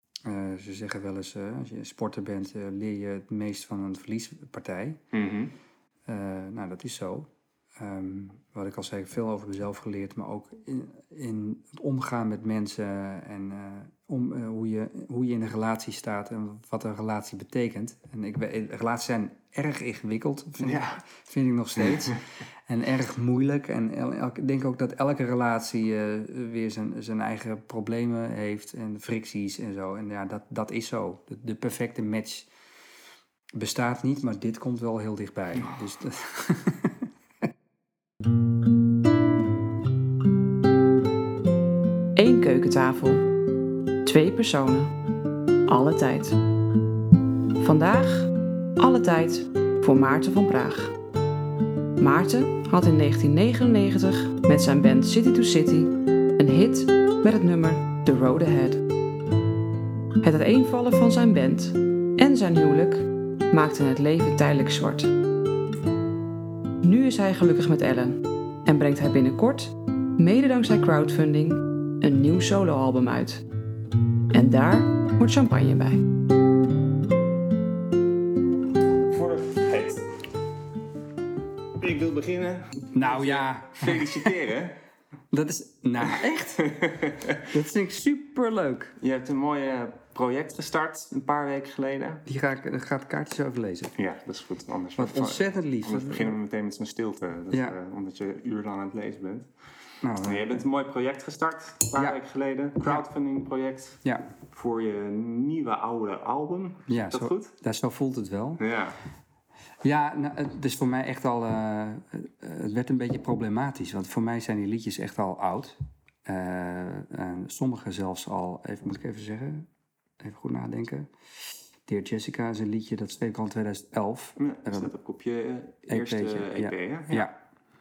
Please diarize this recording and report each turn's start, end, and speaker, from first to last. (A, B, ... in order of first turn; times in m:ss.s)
0:00.3-0:05.0 A
0:05.1-0:05.5 B
0:06.1-0:32.5 A
0:20.6-0:21.0 B
0:21.8-0:22.1 B
0:33.6-0:37.0 A
0:42.2-0:43.3 C
0:44.0-0:44.9 C
0:45.7-0:46.4 C
0:47.6-0:50.9 C
0:52.0-0:58.8 C
1:00.2-1:05.1 C
1:06.8-1:13.4 C
1:14.3-1:16.0 C
1:19.0-1:20.1 B
1:21.8-1:24.8 B
1:22.9-1:24.4 A
1:25.3-1:26.8 A
1:26.6-1:27.4 B
1:27.4-1:29.0 A
1:29.0-1:32.2 B
1:32.3-1:34.0 A
1:34.0-1:39.5 B
1:35.0-1:36.4 A
1:37.5-1:37.8 A
1:40.0-1:40.6 A
1:40.2-1:44.0 B
1:44.5-1:47.5 B
1:46.9-1:48.6 A
1:48.6-1:49.0 B
1:49.8-1:59.7 A
2:00.2-2:01.1 A
2:01.9-2:04.9 A
2:04.4-2:07.3 B
2:05.9-2:07.4 A